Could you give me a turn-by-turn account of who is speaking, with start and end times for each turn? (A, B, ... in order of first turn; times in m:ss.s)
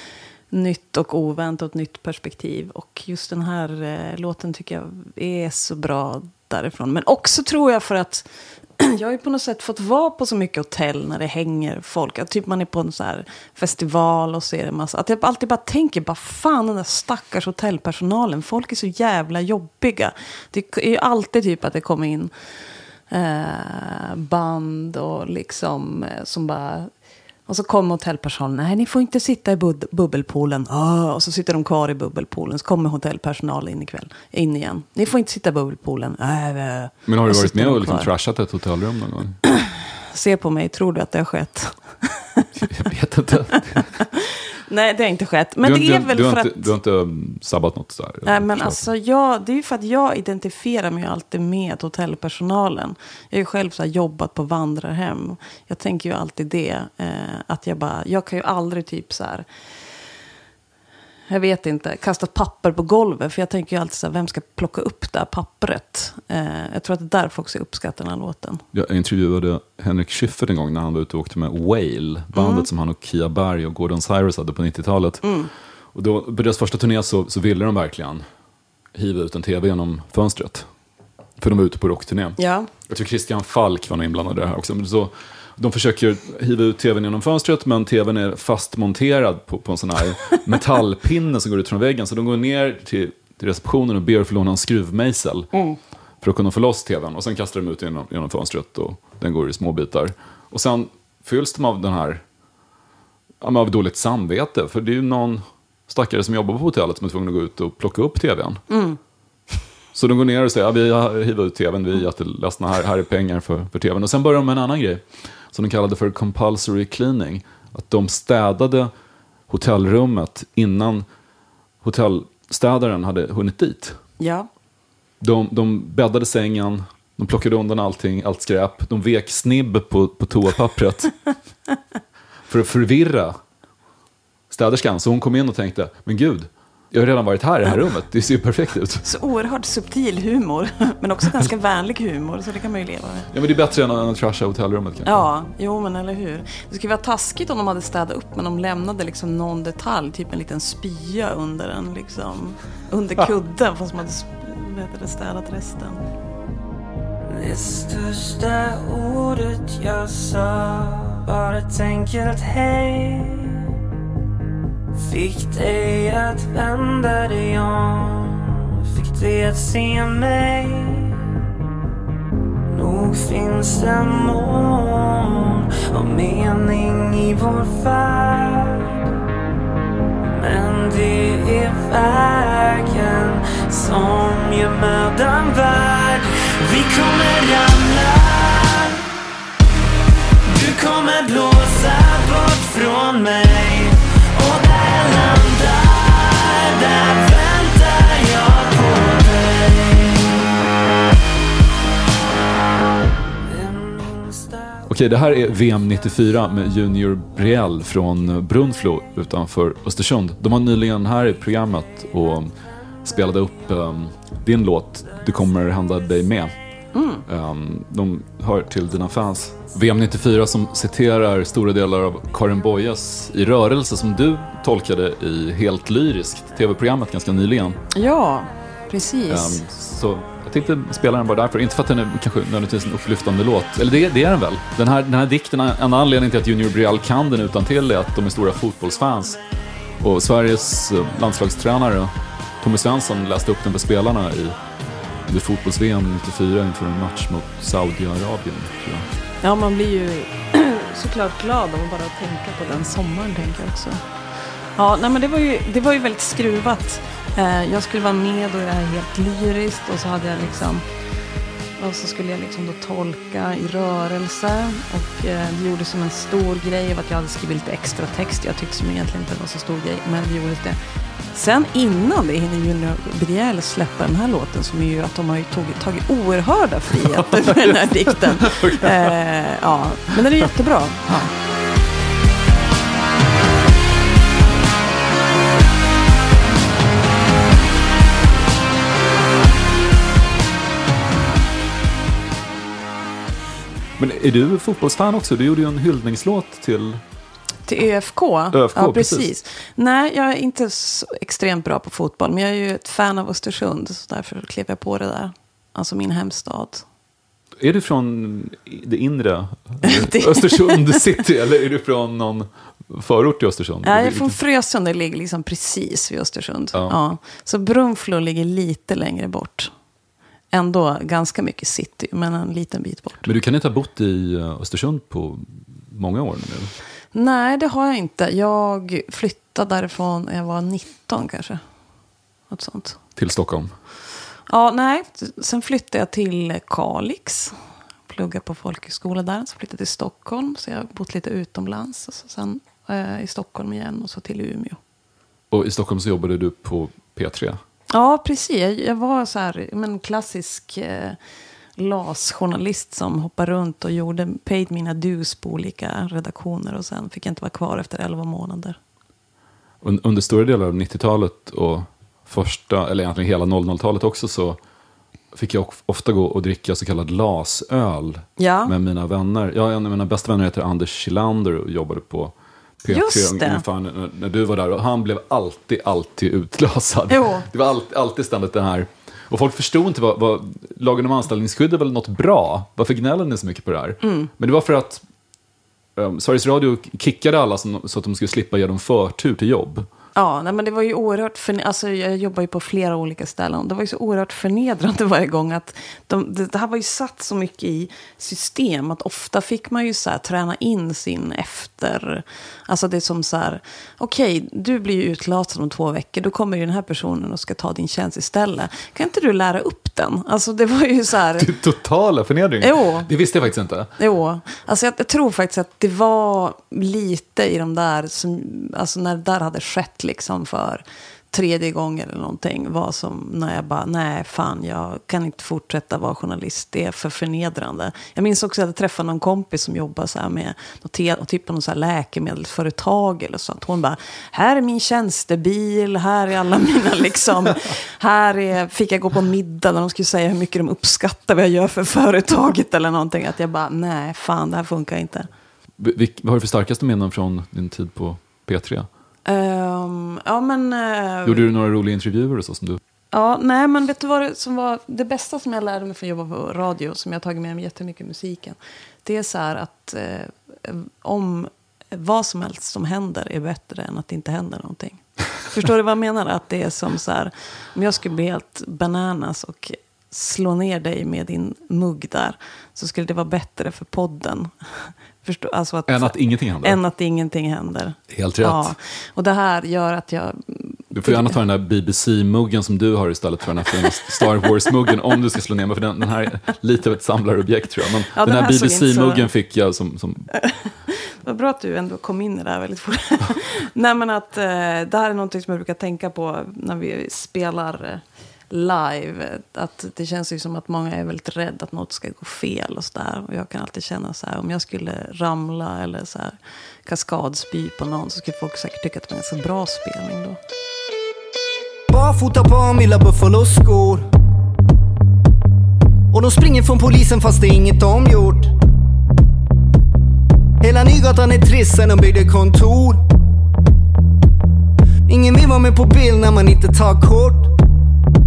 0:00.5-0:08.2 A
0:08.8-0:22.3 A
0:23.1-0:26.9 A
0:27.5-0:38.1 A
0:37.1-0:39.4 B
0:39.5-0:42.5 A
0:42.6-0:43.9 B
0:44.1-0:46.7 A
0:45.6-0:48.8 B
0:48.2-0:59.4 A
1:01.3-1:08.6 A
1:08.7-1:15.2 B
1:12.3-1:12.7 A
1:15.2-1:15.5 A
1:15.9-1:18.2 B
1:18.9-1:20.7 B
1:21.4-1:35.5 B
1:22.4-1:22.7 A
1:36.2-1:42.2 B
1:43.4-1:48.6 B
1:48.7-1:49.0 A
1:49.9-1:58.9 B
1:59.5-2:01.1 B
2:01.8-2:04.0 B
2:04.2-2:04.5 A
2:05.2-2:11.1 B
2:12.5-2:13.4 B
2:14.5-2:19.0 B
2:19.0-2:23.3 A
2:23.3-2:25.3 B
2:25.0-2:36.0 A
2:37.3-2:43.6 C
2:44.9-2:51.2 C
2:52.7-2:58.9 C
3:00.3-3:09.0 C
3:10.5-3:20.4 C
3:23.3-3:24.9 C
3:24.9-3:32.5 B
3:33.0-3:36.5 B
3:36.9-3:37.2 A
3:37.3-3:47.8 B
3:47.9-3:49.6 A
3:49.3-3:59.4 B
4:00.0-4:04.6 B
4:05.3-4:09.1 B
4:09.4-4:14.0 A
4:14.8-4:20.8 A
4:21.8-4:30.8 A
4:31.3-4:41.3 A
4:37.0-4:37.8 B
4:38.4-4:39.1 B
4:54.0-4:57.0 B
4:57.7-5:06.8 A
4:58.5-4:59.3 B
5:07.6-5:14.4 B
5:09.8-5:11.0 A
5:13.8-5:19.7 A
5:20.5-5:23.3 A
5:23.2-5:26.7 B
5:27.1-5:31.6 A
5:32.5-5:33.0 A
5:33.2-5:33.7 B
5:34.5-5:37.5 A
5:38.1-5:44.8 A
5:45.5-5:47.6 B
5:47.9-5:51.2 A
5:51.8-5:58.8 A
5:59.8-6:04.6 B
6:05.3-6:25.0 B
6:08.4-6:08.7 A
6:12.9-6:13.6 A
6:17.1-6:17.5 A
6:24.0-6:24.3 A
6:26.0-6:29.9 B
6:30.1-6:51.5 A
6:51.4-6:53.9 B
6:52.6-6:53.1 A
6:54.0-7:25.3 A
7:25.8-7:28.9 B
7:29.2-7:31.5 A
7:31.2-7:32.8 B
7:33.1-8:01.4 A
7:55.9-7:56.8 B
7:58.1-7:58.7 B
8:00.9-8:10.3 B
8:08.1-8:09.3 A
8:10.5-8:26.3 A
8:26.8-8:30.4 A
8:31.9-8:34.0 D
8:36.1-8:38.5 D
8:40.6-8:43.0 D
8:45.1-8:47.5 D